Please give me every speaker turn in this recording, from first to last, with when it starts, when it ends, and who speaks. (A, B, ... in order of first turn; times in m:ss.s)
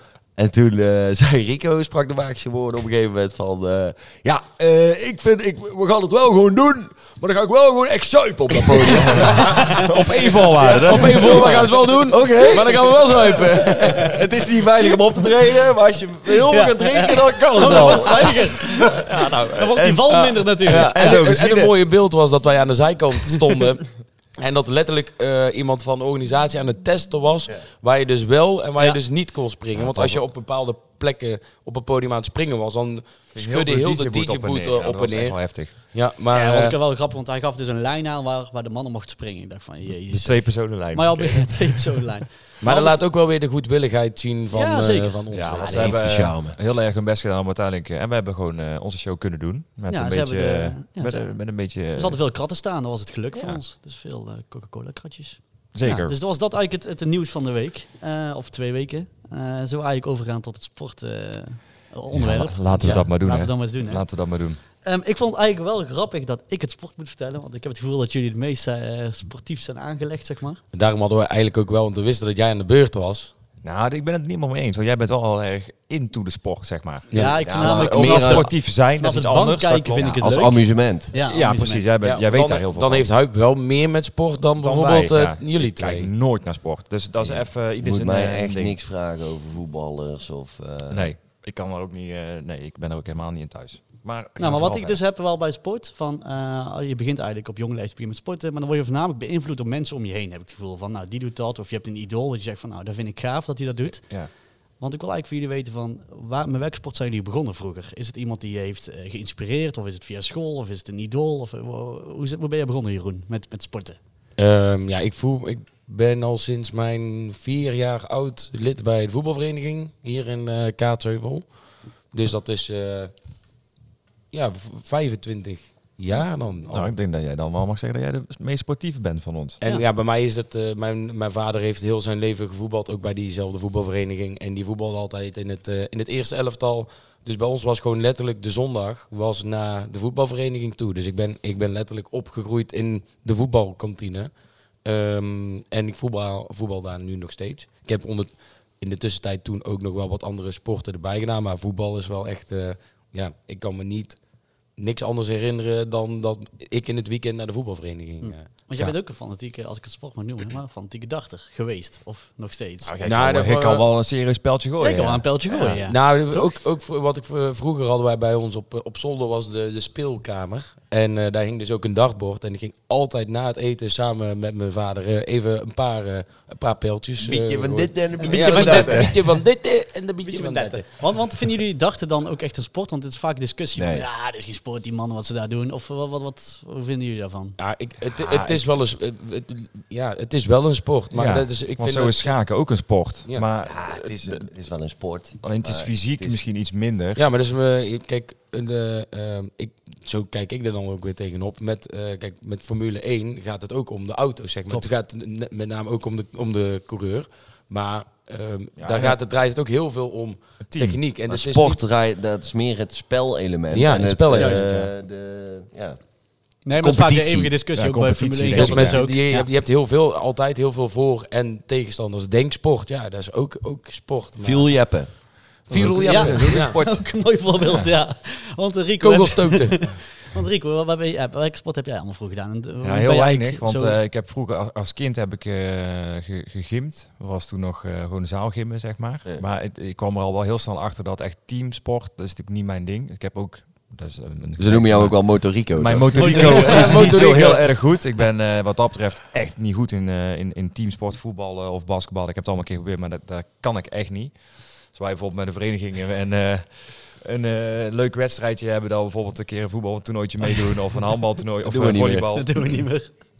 0:00.4-0:09.8 A
0:09.3-0:11.7 B
0:09.4-0:09.7 C
0:10.6-0:14.1 D
0:10.7-0:11.5 A
0:12.1-0:18.7 A
0:16.5-0:21.0 C
0:17.5-0:21.7 B
0:20.1-0:36.8 D
0:29.7-0:30.2 B
0:33.3-0:35.8 B
0:36.3-0:43.0 C
0:40.1-0:42.0 B
0:42.6-0:46.0 D
0:44.5-0:45.6 C
0:45.3-0:52.2 B
0:45.6-0:46.6 A
0:49.9-1:04.1 C
0:55.7-0:56.2 B
1:02.1-1:04.6 B
1:02.8-1:03.0 D
1:04.8-1:10.6 C
1:10.7-1:13.3 D
1:13.6-1:20.6 B
1:17.1-1:17.4 D
1:17.1-1:21.9 C
1:17.4-1:18.5 A
1:20.0-1:21.2 A
1:21.2-1:23.1 B
1:22.0-1:26.1 D
1:24.6-1:28.8 B
1:27.2-1:31.1 A
1:30.9-1:35.0 B
1:34.4-1:54.0 C
1:54.4-2:01.5 D
2:02.1-2:03.1 D
2:04.3-2:06.9 D
2:06.1-2:09.6 B
2:09.6-2:24.3 D
2:24.8-2:34.2 D
2:34.8-2:38.9 D
2:38.2-2:43.0 C
2:42.8-2:45.7 B
2:43.0-2:43.8 D
2:44.8-2:46.5 C
2:45.5-3:00.9 D
2:57.2-2:59.3 A
2:58.2-2:59.4 C
3:00.2-3:07.6 C
3:03.8-3:04.1 A
3:07.6-3:12.4 D
3:08.2-3:08.6 B
3:11.1-3:14.5 B
3:13.6-3:16.4 A
3:15.4-3:17.2 B
3:17.2-3:31.8 D
3:28.8-3:29.2 B
3:30.7-3:31.0 B
3:31.3-3:36.0 A
3:33.7-3:34.9 D
3:34.3-3:34.8 C
3:36.6-3:39.5 C
3:36.8-3:37.5 A
3:37.7-3:39.1 B
3:38.5-3:46.8 D
3:44.4-3:45.1 A
3:45.7-3:47.0 B
3:46.0-3:54.0 C
3:47.6-3:47.9 B
3:49.0-3:49.9 D
3:52.8-4:22.8 B
4:04.6-4:06.9 A
4:06.1-4:07.2 C
4:06.3-4:07.6 D
4:21.6-4:22.3 A
4:22.3-4:23.1 C